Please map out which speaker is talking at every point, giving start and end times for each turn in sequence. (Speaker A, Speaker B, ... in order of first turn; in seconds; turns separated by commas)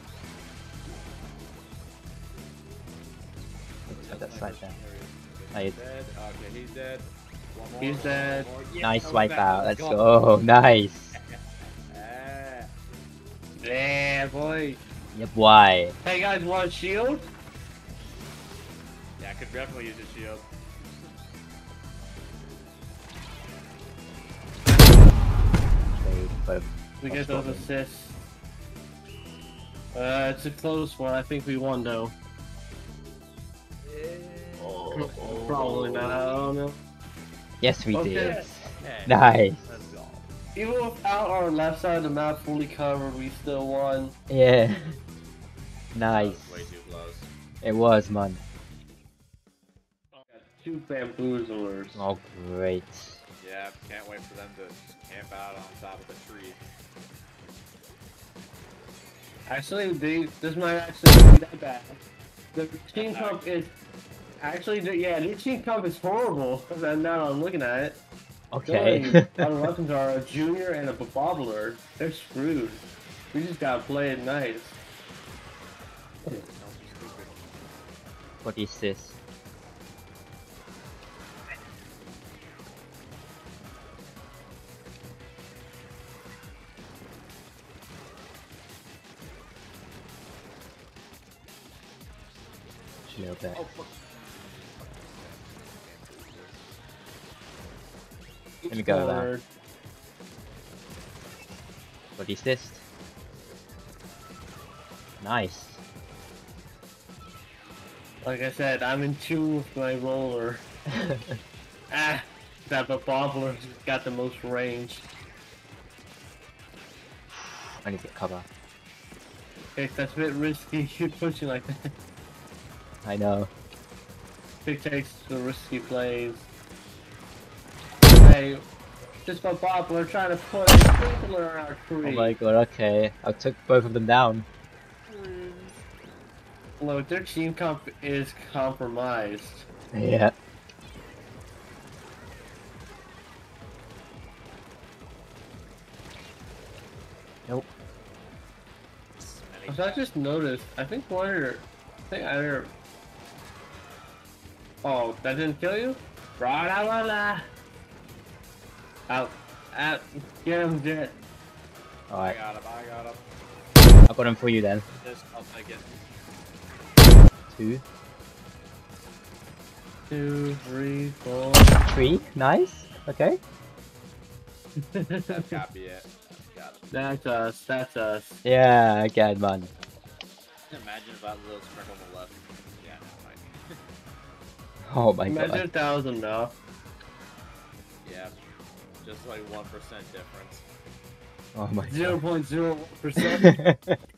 Speaker A: 3.9-10.1, Speaker B: 3.9-4.8, Speaker B: 5.5-5.8, Speaker C: 7.8-8.5, Speaker B: 8.8-11.2, Speaker A: 11.1-12.7, Speaker C: 13.6-14.8, Speaker B: 15.1-16.0, Speaker C: 16.0-17.3, Speaker A: 19.2-21.1, Speaker B: 24.9-25.1, Speaker B: 25.9-27.7, Speaker C: 27.0-28.2, Speaker C: 29.9-32.1, Speaker A: 33.8-36.5, Speaker B: 34.6-36.1, Speaker C: 34.9-36.8, Speaker B: 37.6-39.8, Speaker C: 37.9-38.5, Speaker A: 38.7-40.3, Speaker C: 40.5-44.1, Speaker B: 44.3-45.0, Speaker B: 45.9-46.7, Speaker A: 46.1-47.3, Speaker B: 47.6-48.4, Speaker C: 50.1-52.1, Speaker B: 52.0-53.2, Speaker A: 53.4-56.7, Speaker C: 59.5-62.0, Speaker C: 62.5-63.7, Speaker A: 62.9-63.5, Speaker C: 64.4-68.0, Speaker B: 68.5-69.5, Speaker C: 68.7-74.8, Speaker A: 76.2-77.4, Speaker B: 78.4-79.2, Speaker B: 93.1-93.7, Speaker A: 93.5-96.6, Speaker C: 98.6-99.5, Speaker B: 98.7-99.3, Speaker B: 102.2-102.8, Speaker B: 105.2-105.8, Speaker C: 108.2-110.6, Speaker B: 110.9-111.4, Speaker C: 111.9-115.1, Speaker B: 117.8-118.5, Speaker C: 119.8-121.8, Speaker B: 123.0-123.5, Speaker C: 124.6-126.5, Speaker C: 128.0-128.6, Speaker C: 129.3-132.4, Speaker B: 132.0-134.5, Speaker A: 135.1-135.8, Speaker C: 136.8-139.7, Speaker B: 139.9-140.3, Speaker A: 149.2-150.1, Speaker C: 149.7-152.7, Speaker C: 154.8-157.5, Speaker C: 159.1-161.2, Speaker B: 162.1-162.4, Speaker A: 162.2-163.2, Speaker B: 164.1-164.9, Speaker A: 165.0-166.0, Speaker B: 167.5-167.8, Speaker C: 170.1-171.8, Speaker B: 171.8-173.4, Speaker C: 174.8-175.6, Speaker A: 175.3-176.9, Speaker C: 176.9-178.3, Speaker B: 178.4-179.7, Speaker A: 180.7-183.8, Speaker B: 184.8-185.7, Speaker C: 185.3-186.6, Speaker A: 188.0-188.3, Speaker A: 189.0-190.7, Speaker B: 191.6-192.2, Speaker C: 191.9-193.6, Speaker B: 193.4-194.0